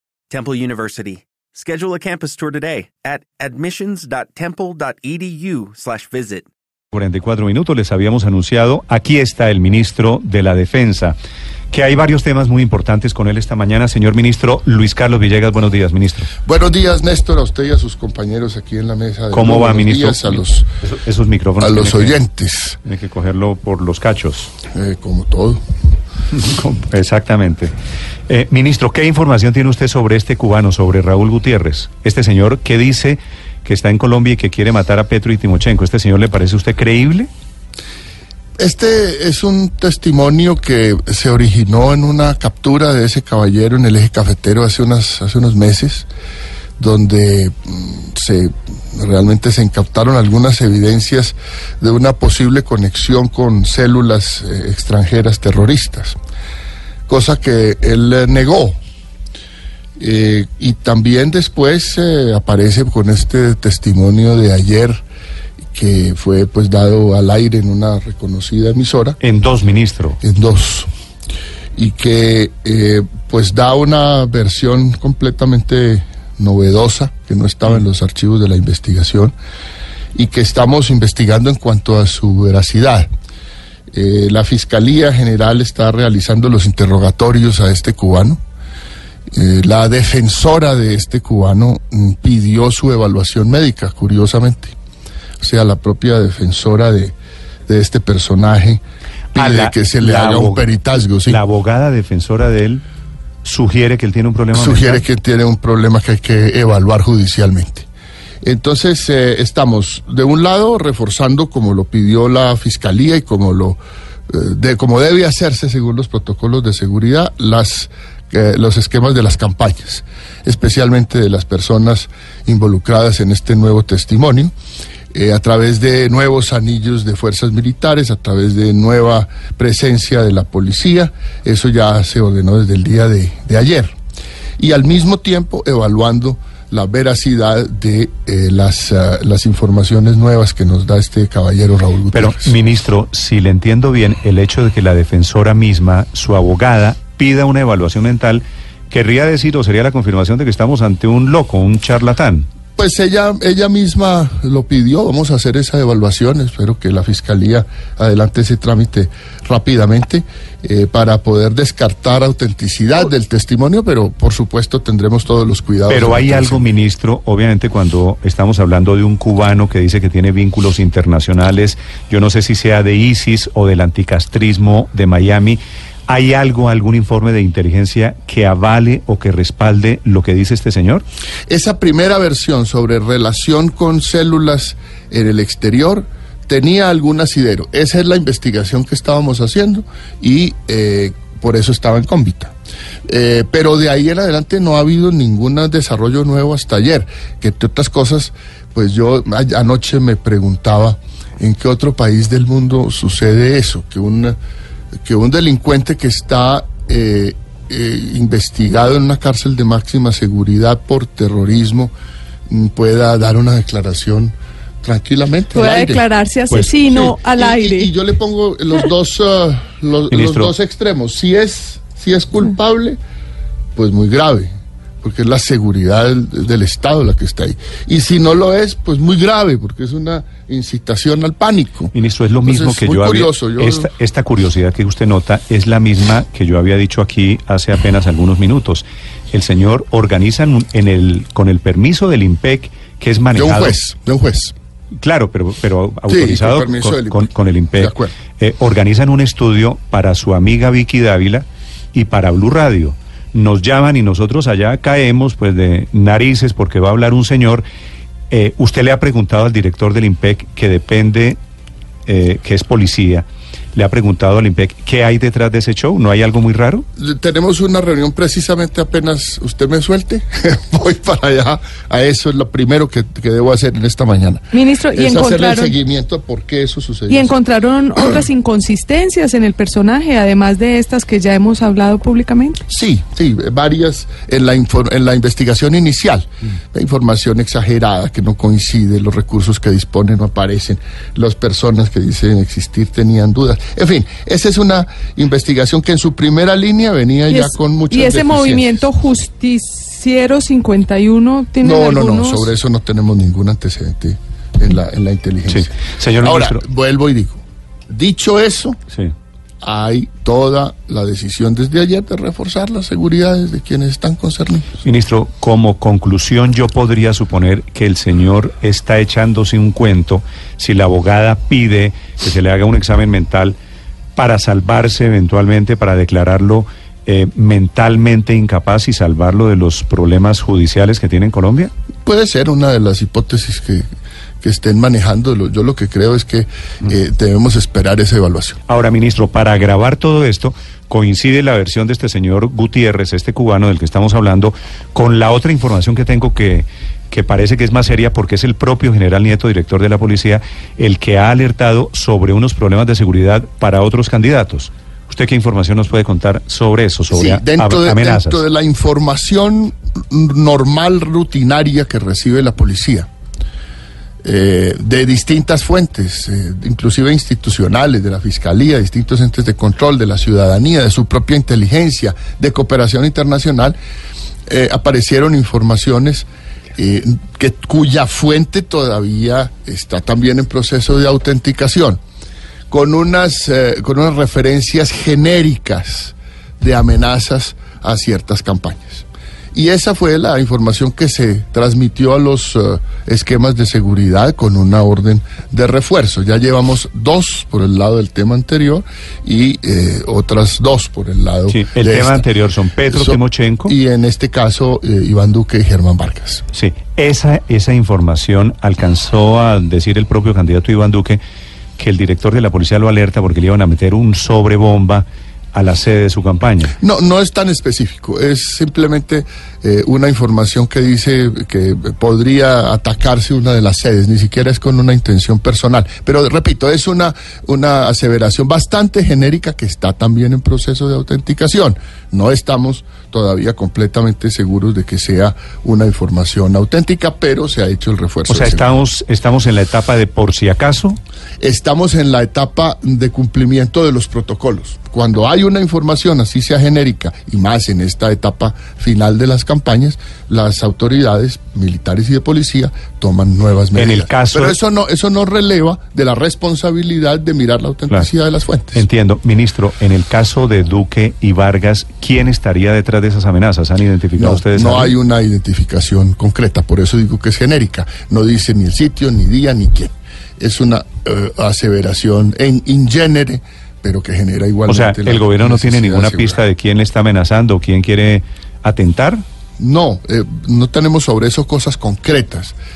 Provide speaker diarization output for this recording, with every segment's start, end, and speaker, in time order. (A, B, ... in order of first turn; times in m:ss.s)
0:00.3-0:06.5 A
0:06.9-0:11.2 B
0:11.7-0:16.3 B
0:16.4-0:20.6 C
0:19.3-0:22.2 B
0:21.6-0:22.8 C
0:22.8-0:24.5 B
0:24.7-0:25.6 C
0:26.3-0:27.7 B
0:28.3-0:37.3 B
0:38.6-0:46.1 C
0:46.8-0:56.2 C
0:57.1-0:58.8 C
1:00.0-1:05.0 C
1:05.7-1:09.2 C
1:09.2-1:10.2 B
1:10.2-1:10.9 C
1:11.7-1:19.3 C
1:20.1-1:23.1 C
1:23.9-1:28.4 C
1:29.3-1:34.7 C
1:35.4-1:37.2 C
1:37.7-1:38.8 C
1:39.3-1:41.4 C
1:39.3-1:40.7 B
1:41.2-1:42.8 B
1:43.4-1:45.0 B
1:44.5-1:47.9 C
1:48.4-1:53.8 C
1:54.3-2:04.5 C
2:05.1-2:13.9 C
2:14.6-2:22.6 C
2:22.1-2:32.4 B
2:32.8-2:46.7 C
2:45.9-3:01.0 B
3:01.5-3:12.5 C
3:13.1-3:24.4 C
3:25.0-3:31.9 C
3:32.5-3:36.0 C
3:35.5-3:37.9 D
3:36.5-3:36.8 B
3:36.7-3:43.0 C
3:40.1-3:40.5 B
3:43.7-3:44.5 C
3:45.0-3:51.9 C
3:51.9-4:03.8 B
3:52.4-3:53.9 C
4:03.3-4:04.5 C
4:05.0-4:17.6 B
4:06.1-4:08.1 C
4:18.3-4:21.4 B
4:22.1-4:26.8 B
4:27.0-4:37.3 C
4:34.5-4:35.7 D
4:37.1-4:42.6 D
4:37.9-4:38.2 C
4:42.7-4:58.8 C
4:57.3-5:02.5 D
5:01.6-5:08.8 C
5:05.5-5:06.6 B
5:09.6-5:14.8 C
5:14.8-5:23.6 B
5:24.2-5:31.7 B
5:32.0-5:33.8 C
5:34.4-5:38.6 C
5:38.7-5:58.4 B
5:57.1-6:03.1 C
6:04.2-6:13.8 C
6:14.5-6:22.0 C
6:22.7-6:42.2 C
6:41.5-6:43.7 B
6:42.9-6:46.4 C
6:46.5-6:51.2 B
6:51.8-6:56.7 B
6:56.8-7:18.8 C
7:18.3-7:21.0 B
7:21.4-7:38.8 C
7:33.7-7:34.6 B
7:38.7-7:44.9 B
7:44.2-7:56.4 C
7:54.7-7:59.2 B
7:59.6-8:02.6 C